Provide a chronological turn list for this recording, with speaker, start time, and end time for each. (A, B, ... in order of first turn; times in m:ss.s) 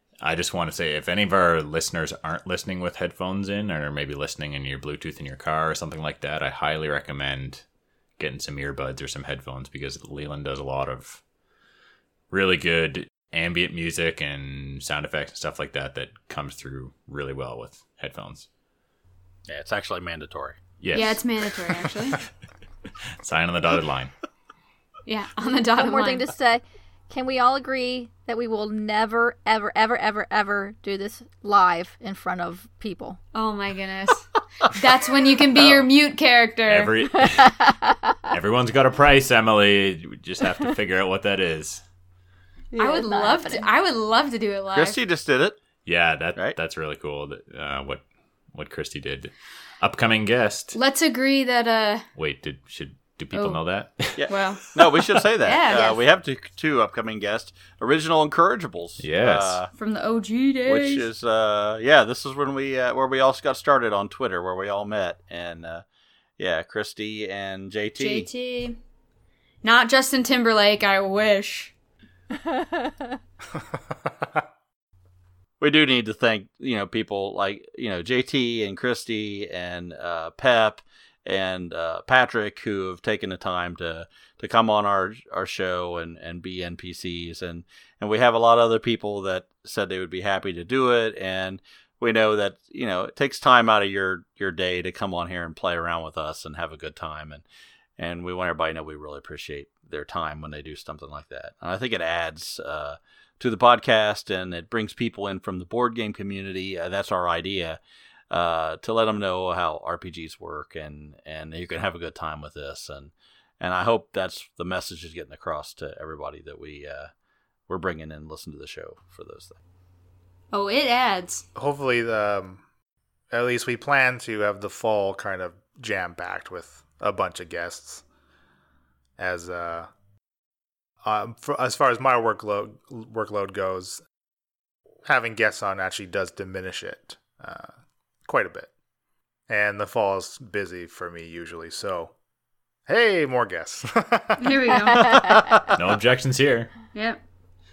0:00.2-0:07.6 A
0:08.2-0:11.2 A
0:12.3-0:18.4 A
0:19.5-0:20.6 B
0:20.8-0:22.2 A
0:20.9-0:22.2 C
0:23.2-0:24.1 A
0:25.0-0:26.2 C
0:25.8-0:33.2 D
0:33.3-0:36.9 C
0:36.7-0:37.6 A
0:37.2-0:38.1 D
0:38.3-0:41.8 A
0:42.7-0:43.7 D
0:42.8-0:45.0 C
0:44.7-0:45.6 B
0:45.8-0:50.8 A
0:50.7-0:52.0 C
0:52.2-0:54.4 A
0:54.1-0:59.7 B
0:54.3-0:54.7 C
0:55.4-0:56.0 C
0:59.0-0:59.6 A
0:59.7-1:01.1 C
1:00.6-1:05.8 B
1:06.4-1:08.3 B
1:08.0-1:08.8 C
1:09.6-1:11.7 C
1:12.5-1:12.9 D
1:15.6-1:37.4 B
1:38.0-1:47.8 B
1:48.3-1:57.1 B
1:57.7-1:59.6 B
2:00.5-2:01.4 C
2:01.5-2:02.6 E
2:03.3-2:08.0 E
2:09.2-2:09.9 E
2:11.0-2:14.0 E
2:15.0-2:17.7 E
2:18.2-2:18.7 E
2:19.5-2:22.1 E
2:22.9-2:24.7 E
2:24.4-2:25.2 C
2:25.0-2:25.7 D
2:25.0-2:25.7 B
2:25.7-2:26.7 A
2:26.9-2:27.2 C